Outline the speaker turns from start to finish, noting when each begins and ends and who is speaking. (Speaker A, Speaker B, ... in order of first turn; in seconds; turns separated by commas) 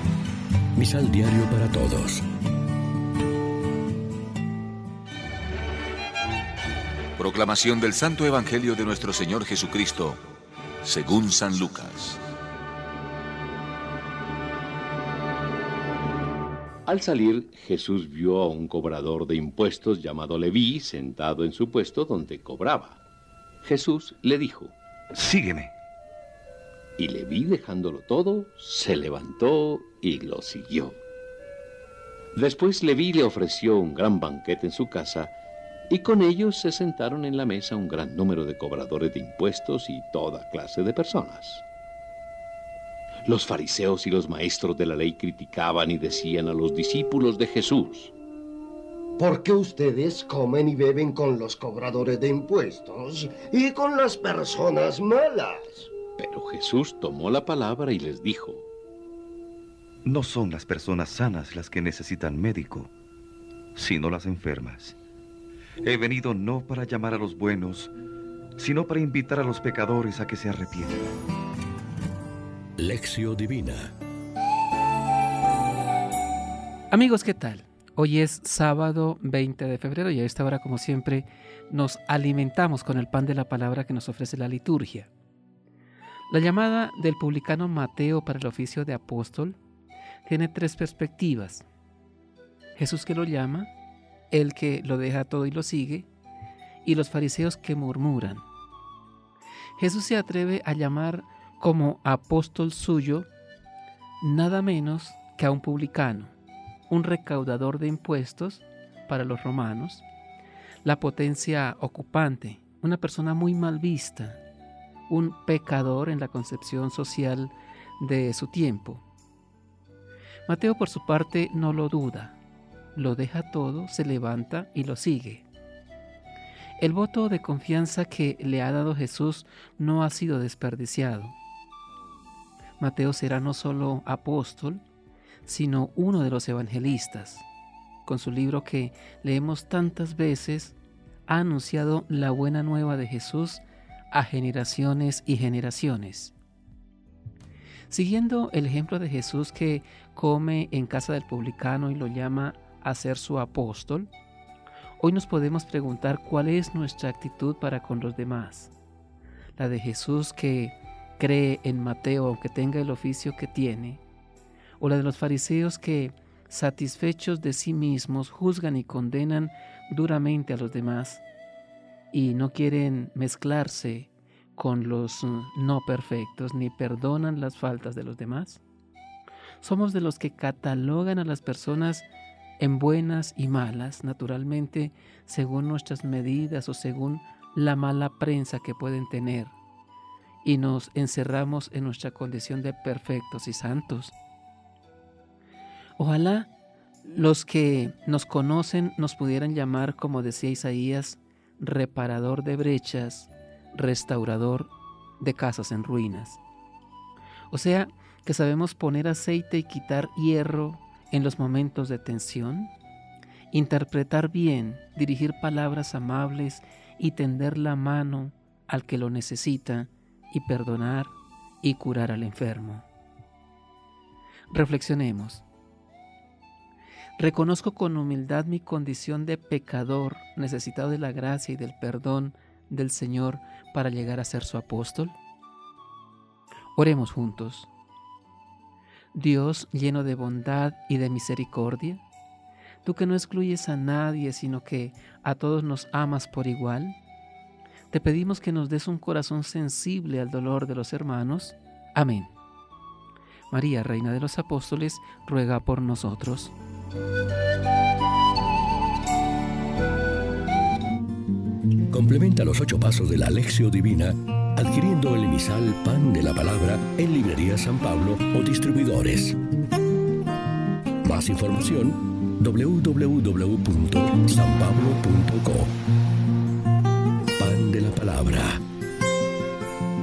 Speaker A: 0.8-2.2, Speaker B: 7.2-10.2, Speaker B: 10.8-12.2, Speaker C: 16.9-23.0, Speaker C: 23.6-24.7, Speaker D: 25.1-25.7, Speaker C: 27.0-31.0, Speaker C: 32.3-35.3, Speaker C: 35.9-41.6, Speaker C: 43.2-48.1, Speaker E: 49.2-55.9, Speaker C: 56.2-58.6, Speaker D: 60.0-62.9, Speaker D: 63.8-65.0, Speaker D: 65.8-67.9, Speaker D: 68.6-71.0, Speaker A: 72.8-73.9, Speaker F: 76.9-85.1, Speaker F: 86.3-89.6, Speaker F: 90.2-91.6, Speaker F: 92.8-93.7, Speaker F: 94.3-96.1, Speaker F: 96.8-98.5, Speaker F: 99.8-103.3, Speaker F: 104.2-106.3, Speaker F: 106.9-110.0, Speaker F: 110.8-114.4, Speaker F: 115.1-119.0, Speaker F: 120.5-122.4, Speaker F: 122.9-125.5, Speaker F: 126.8-131.3, Speaker F: 132.8-134.8, Speaker F: 135.4-137.4, Speaker F: 138.0-140.8, Speaker F: 141.3-146.3, Speaker F: 147.9-154.1, Speaker F: 155.0-158.7, Speaker F: 159.6-164.0, Speaker F: 164.8-171.2, Speaker F: 172.1-178.6, Speaker F: 179.6-182.1, Speaker F: 182.6-189.5, Speaker F: 190.4-194.1, Speaker F: 196.0-196.5, Speaker F: 197.0-206.4, Speaker F: 207.5-212.7, Speaker F: 213.5-222.8, Speaker F: 224.5-225.4, Speaker F: 227.2-235.2, Speaker F: 236.8-237.7, Speaker F: 239.1-242.0, Speaker F: 242.8-247.0, Speaker F: 247.9-252.3, Speaker F: 253.5-256.5, Speaker A: 261.9-269.4, Speaker A: 271.0-275.7, Speaker A: 277.4-278.6